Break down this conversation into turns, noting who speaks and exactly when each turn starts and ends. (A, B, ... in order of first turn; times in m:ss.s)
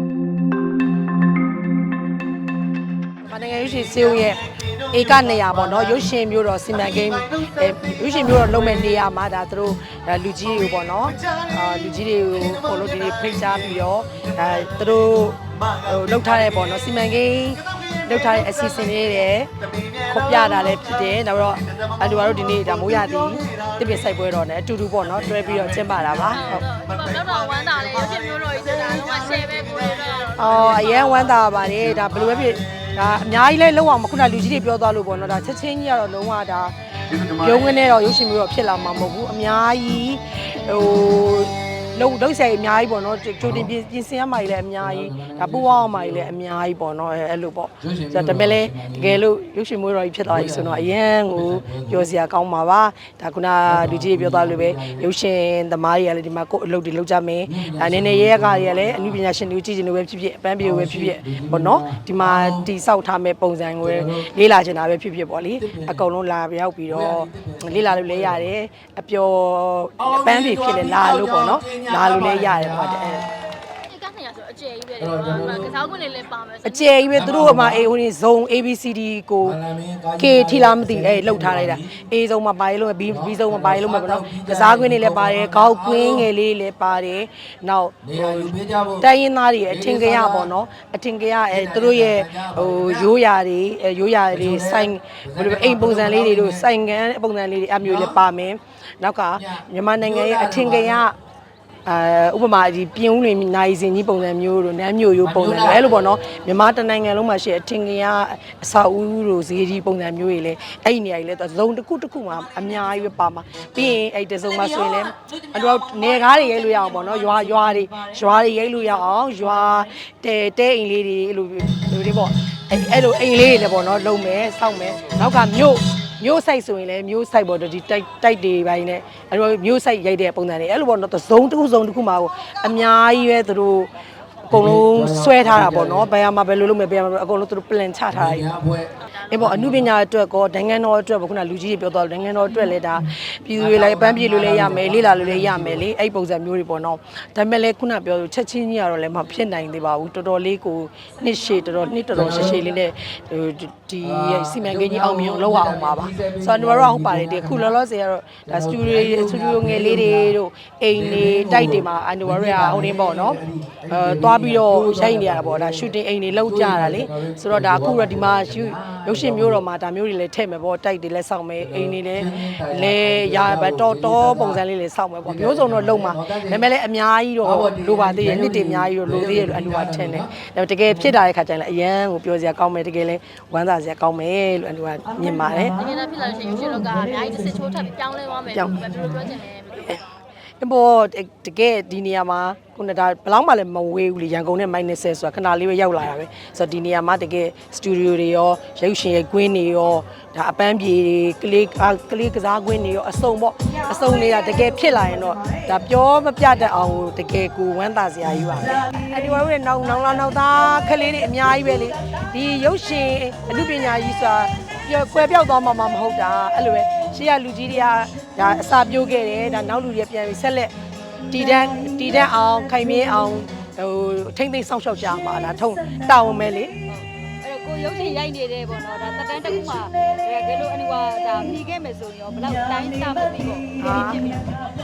0:03.2-0:26.7 A
0:26.3-0:31.4 B
0:30.4-1:13.3 A
0:37.1-0:37.6 C
0:43.4-0:43.7 C
0:44.8-0:46.4 C
0:47.8-0:49.2 C
0:50.2-0:52.1 C
0:53.7-0:55.1 C
0:57.5-0:59.2 C
1:00.6-1:02.7 C
1:03.8-1:04.4 C
1:05.6-1:06.1 C
1:06.9-1:08.5 C
1:10.0-1:13.3 C
1:13.8-1:17.0 B
1:15.0-1:15.9 C
1:16.6-1:19.6 A
1:17.1-1:17.9 C
1:19.4-1:22.1 C
1:20.2-1:41.2 A
1:23.1-1:26.3 C
1:28.0-1:29.1 C
1:29.7-1:30.5 C
1:31.5-1:33.1 C
1:34.3-1:36.7 C
1:37.8-1:38.2 C
1:39.4-1:41.0 C
1:41.9-2:13.9 A
1:45.2-1:46.1 C
2:14.5-2:18.5 A
2:14.5-2:16.1 C
2:18.1-2:19.9 C
2:19.2-3:05.8 A
2:23.5-2:25.9 C
2:32.1-2:32.6 C
2:34.0-2:37.7 C
2:38.5-2:40.4 C
2:40.9-2:49.7 C
2:51.6-2:54.6 C
2:55.2-2:56.7 C
2:57.4-3:00.4 C
3:05.7-3:10.0 B
3:10.6-3:40.7 A
3:41.3-3:46.7 A
3:46.9-3:54.4 D
3:53.8-3:54.4 A